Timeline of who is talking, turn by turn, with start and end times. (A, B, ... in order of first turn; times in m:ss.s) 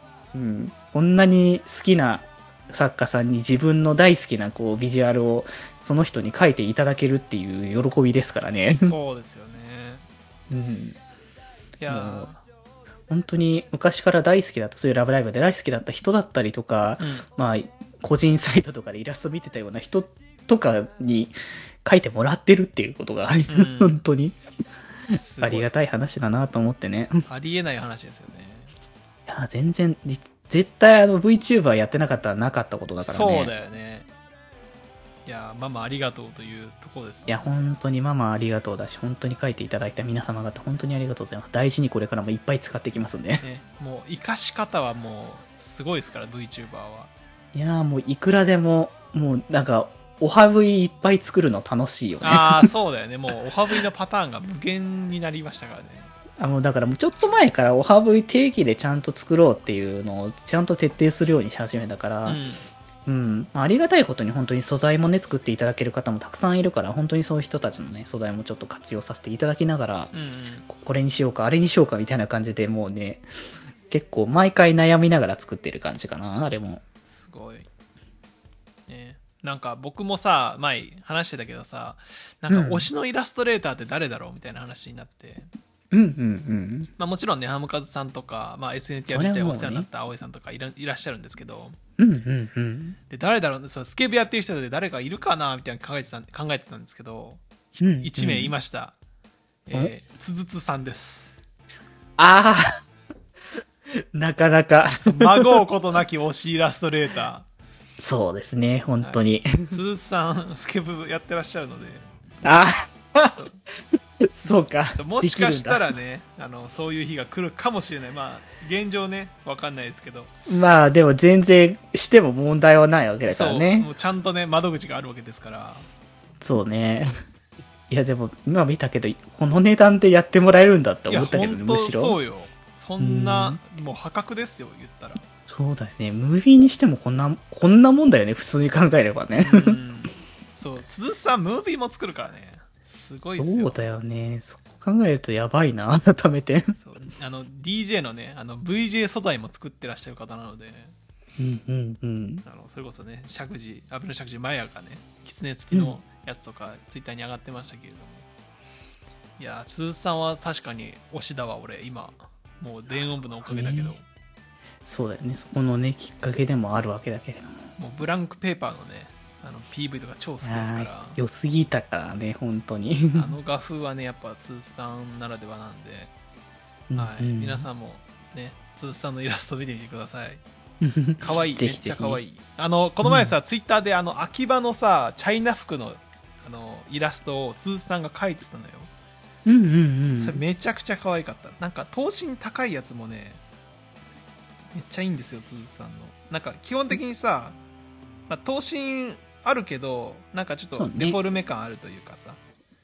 0:00.3-0:08.9 A
0:08.8-0:10.0 B
0:10.5-0:11.0 A
0:11.8-0:12.4 B
0:11.9-0:12.3 A
0:13.1-0:24.4 A
0:17.0-0:17.2 B
0:23.5-0:24.0 B
0:25.1-0:27.2 A
0:25.1-0:25.7 B
0:27.3-0:28.7 B
0:29.3-0:33.5 A
0:33.0-0:34.1 B
0:35.2-0:37.4 B
0:37.3-0:43.4 A
0:43.4-0:47.1 B
0:47.5-0:52.7 A
0:52.2-0:56.1 B
0:56.4-1:02.4 A
1:02.2-1:02.7 B
1:03.0-1:10.1 A
1:10.1-1:10.7 B
1:10.7-1:13.2 A
1:13.9-1:16.8 A
1:17.0-1:17.6 B
1:18.9-1:25.5 B
1:22.5-1:22.9 A
1:25.9-1:26.9 A
1:27.0-1:31.8 B
1:29.1-1:29.9 A
1:32.0-1:33.0 A
1:33.1-1:39.0 B
1:37.8-1:38.6 A
1:39.6-1:41.4 B
1:42.2-1:42.8 A
1:44.1-1:45.5 A
1:45.0-1:47.5 B
1:48.0-1:49.8 A
1:49.0-1:52.0 B
1:52.4-1:53.4 A
1:53.3-1:53.6 B
1:54.2-1:55.8 A
1:54.9-2:00.3 B
2:00.5-2:03.9 A
2:03.3-2:05.9 B
2:06.4-2:07.1 A
2:07.9-2:12.2 A
2:11.1-2:15.2 B
2:13.0-2:13.6 A
2:15.5-2:19.8 A
2:19.4-2:23.7 B
2:23.4-2:26.7 A
2:26.8-2:30.9 B
2:31.4-2:32.4 A
2:32.4-2:38.3 B
2:39.4-2:44.0 B
2:43.3-2:44.0 A
2:44.8-2:47.7 A
2:47.8-2:51.2 B
2:50.4-2:53.3 A
2:53.1-2:56.1 B
2:56.9-2:57.7 A
2:56.9-3:00.4 B
3:00.8-3:02.2 A
3:01.2-3:08.9 B
3:03.0-3:03.3 A
3:09.4-3:10.4 A
3:10.1-3:13.4 B
3:14.7-3:17.6 B
3:18.3-3:22.4 B
3:20.8-3:21.2 A